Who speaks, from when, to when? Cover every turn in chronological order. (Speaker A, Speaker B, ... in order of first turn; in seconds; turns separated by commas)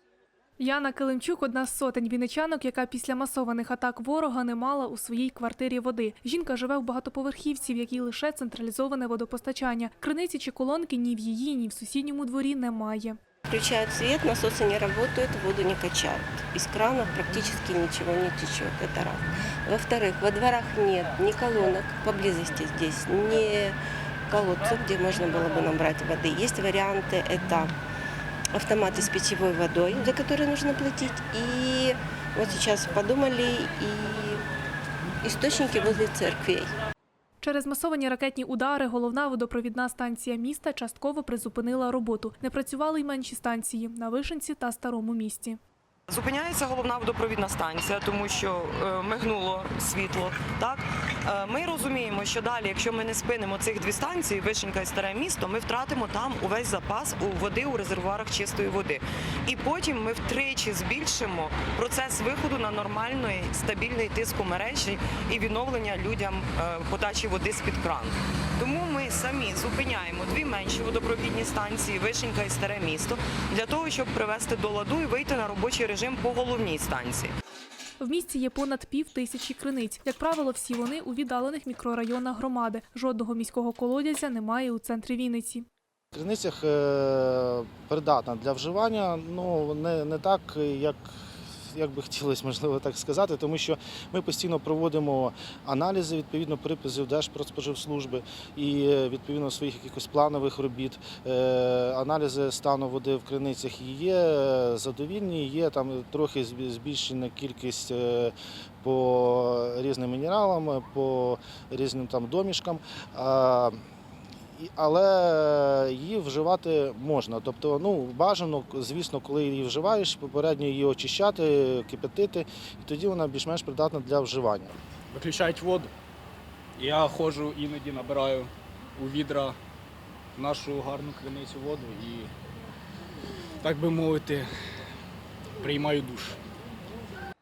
Speaker A: 0.6-13.2, Speaker B: 13.5-23.8, Speaker B: 24.3-27.7, Speaker B: 28.5-34.4, Speaker B: 35.2-36.7, Speaker A: 37.4-45.6, Speaker C: 46.1-77.3, Speaker A: 78.0-85.6, Speaker D: 86.1-91.1, Speaker D: 91.7-113.8, Speaker D: 114.6-124.7, Speaker E: 125.1-125.9, Speaker E: 126.8-129.6, Speaker E: 130.3-132.3, Speaker E: 133.6-134.5, Speaker E: 135.6-136.4